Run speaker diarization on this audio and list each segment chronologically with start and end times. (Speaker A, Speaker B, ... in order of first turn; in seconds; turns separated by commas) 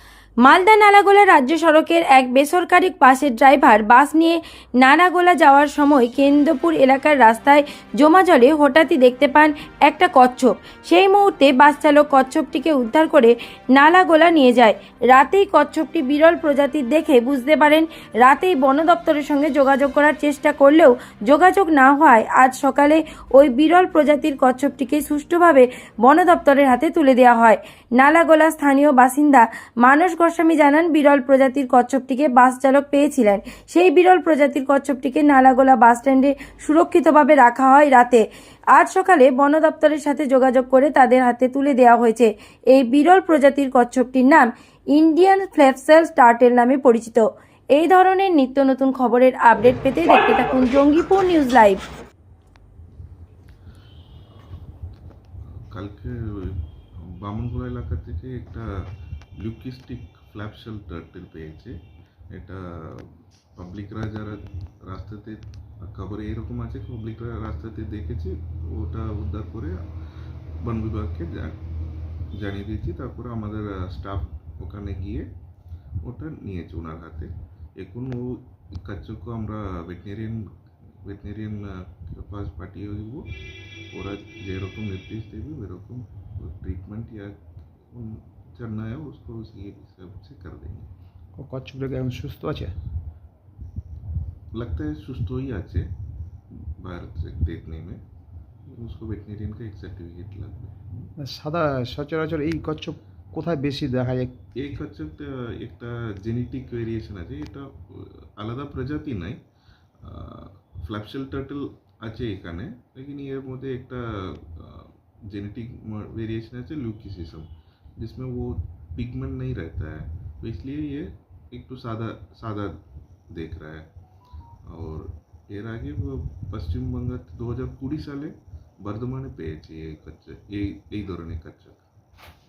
Speaker A: 0.4-51.8, Speaker B: 54.3-54.7, Speaker B: 55.5-58.7, Speaker B: 59.4-61.8, Speaker B: 62.3-69.8, Speaker B: 70.6-71.6, Speaker B: 72.4-75.3, Speaker B: 76.0-80.5, Speaker B: 81.1-83.3, Speaker B: 83.9-87.4, Speaker B: 87.9-90.9, Speaker C: 91.4-92.8, Speaker B: 94.5-95.9, Speaker B: 96.6-98.0, Speaker B: 98.7-101.1, Speaker C: 101.2-104.4, Speaker B: 104.6-109.4, Speaker B: 110.0-122.7, Speaker B: 123.3-123.9, Speaker B: 124.7-131.8